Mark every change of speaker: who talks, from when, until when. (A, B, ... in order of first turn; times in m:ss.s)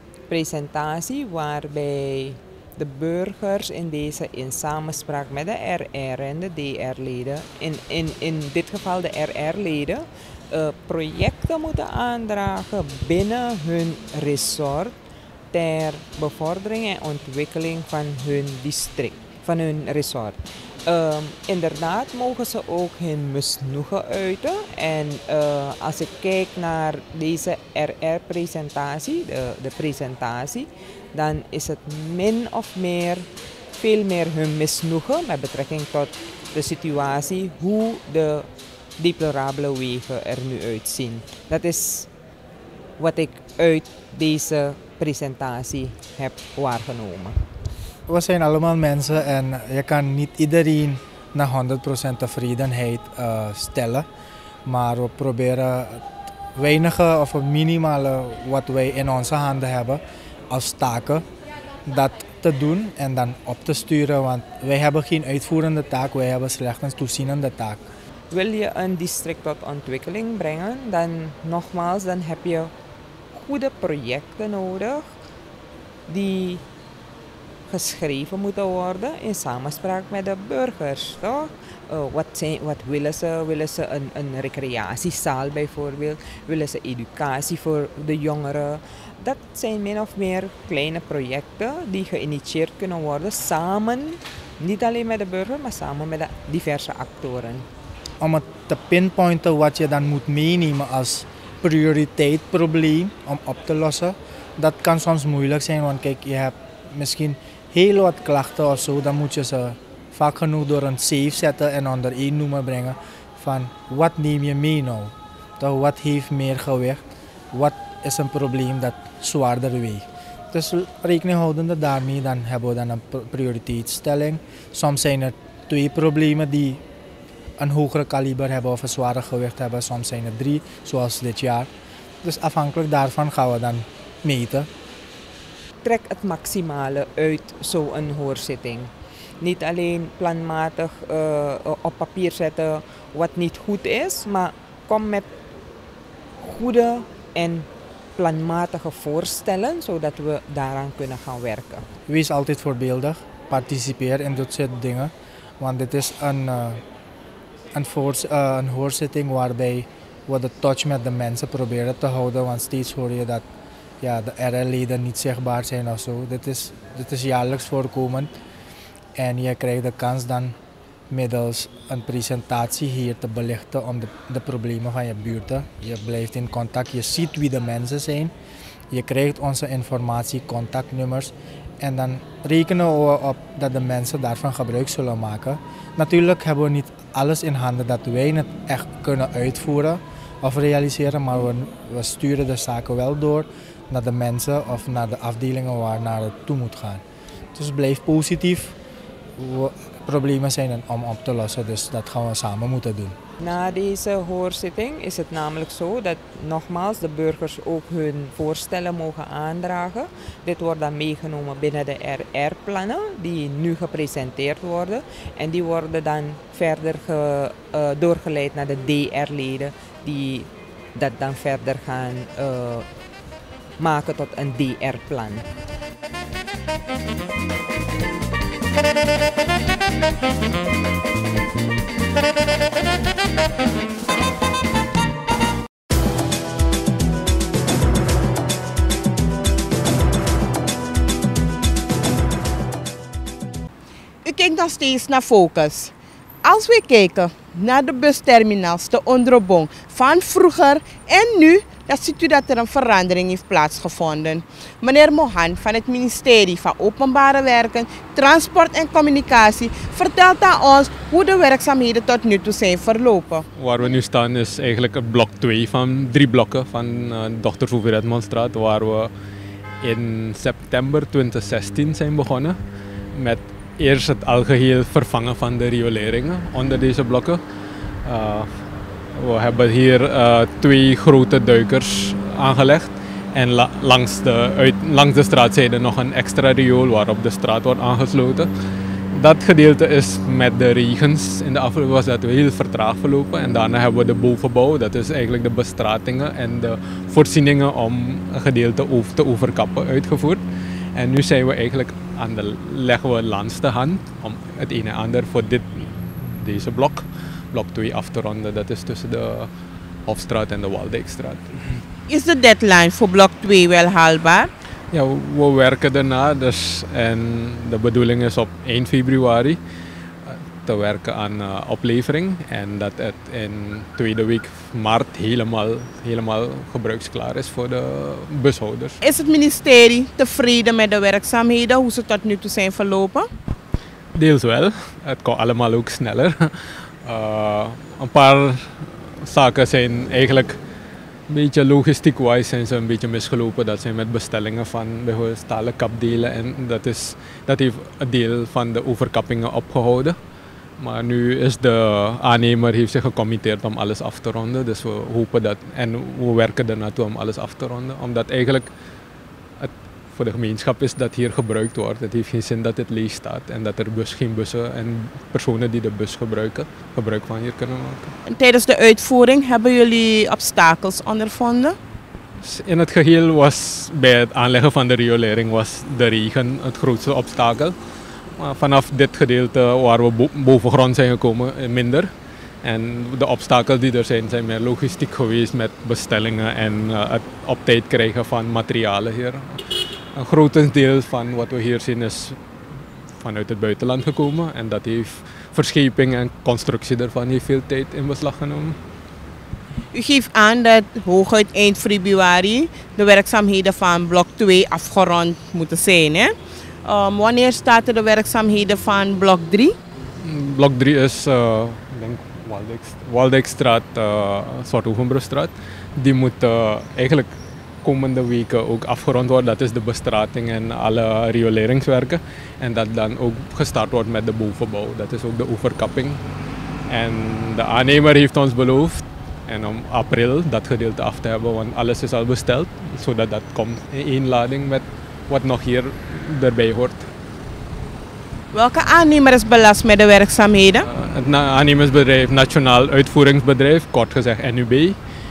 0:00.3-0:15.0 A
0:15.5-0:42.1 A
0:43.0-0:47.4 A
0:48.1-0:54.1 B
0:54.6-1:01.2 B
1:01.8-1:07.9 B
1:08.3-1:12.7 A
1:13.3-1:15.1 A
1:16.1-1:16.6 A
1:17.7-1:37.7 A
1:38.2-2:06.8 B
2:07.6-2:11.7 B
2:12.2-2:14.7 B
2:15.8-2:25.3 A
2:26.4-2:31.9 A
2:32.1-2:36.8 B
2:37.7-2:43.4 B
2:44.0-2:48.3 B
2:49.2-2:50.6 B
2:51.1-2:58.3 B
2:58.9-3:17.0 B
3:17.5-3:18.8 B
3:19.4-3:23.2 B
3:23.4-3:42.9 A
3:43.8-3:45.5 A
4:04.2-4:23.4 C
4:23.6-4:29.1 D
4:29.8-4:32.6 D
4:33.1-4:37.4 D
4:38.0-4:48.5 D
4:49.1-5:00.4 D
5:01.0-5:09.5 D
5:10.0-5:11.8 D
5:12.1-5:14.5 C
5:14.9-5:19.6 D
5:20.2-5:29.0 D
5:29.0-5:33.3 C
5:34.1-5:40.6 D
5:41.3-5:50.2 D
5:50.8-5:58.7 D
5:59.6-6:08.1 D
6:08.2-6:11.8 C
6:12.4-6:17.8 D
6:18.3-6:22.1 D
6:22.6-6:32.4 D
6:33.2-6:38.8 D
6:39.9-6:49.8 C
6:50.2-6:57.3 D
6:57.8-7:06.2 D
7:06.9-7:17.1 D
7:18.5-7:20.9 C
7:20.8-7:25.0 D